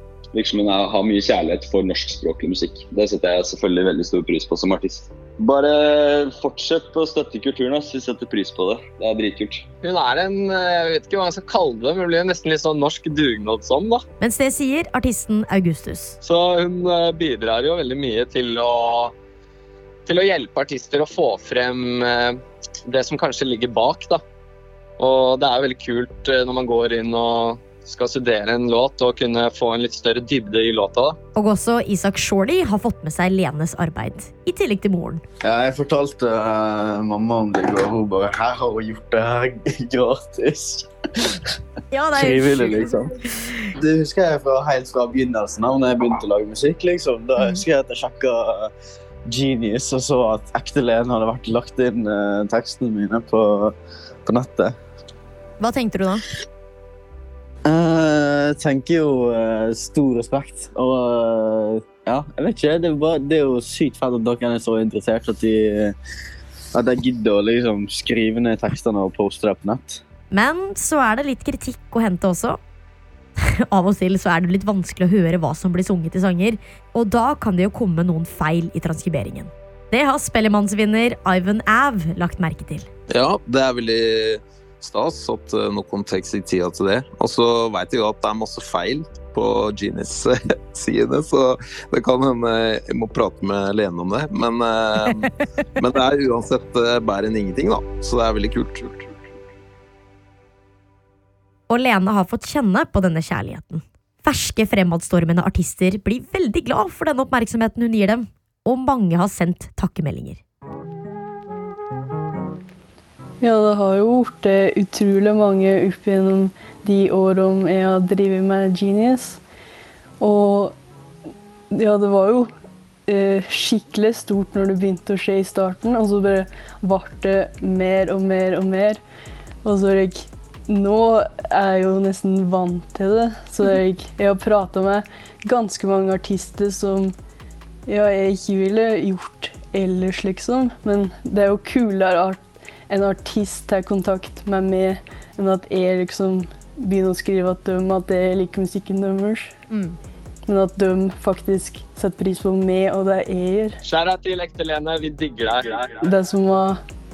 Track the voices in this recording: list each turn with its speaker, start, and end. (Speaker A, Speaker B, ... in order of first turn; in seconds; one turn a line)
Speaker A: 0.3-9.6
Speaker B: 9.8-14.0
Speaker C: 14.2-16.2
Speaker B: 16.2-19.1
Speaker B: 20.1-24.2
Speaker B: 25.0-31.2
Speaker C: 31.3-35.2
Speaker D: 35.4-40.9
Speaker C: 41.9-43.5
Speaker D: 42.1-43.1
Speaker D: 43.8-48.7
Speaker C: 47.4-47.6
Speaker D: 49.2-54.8
Speaker C: 55.6-56.2
Speaker D: 57.6-66.0
Speaker D: 66.7-70.0
Speaker C: 70.3-72.6
Speaker C: 73.4-82.9
Speaker E: 83.1-95.2
Speaker E: 95.8-99.1
Speaker C: 101.7-110.4
Speaker F: 113.4-119.4
Speaker F: 120.2-120.8
Speaker F: 121.7-122.5
Speaker F: 123.1-129.0
Speaker F: 129.6-137.1
Speaker F: 137.8-149.5
Speaker C: 149.7-150.0
Speaker F: 150.4-153.8
Speaker B: 153.8-155.9
Speaker F: 156.0-156.8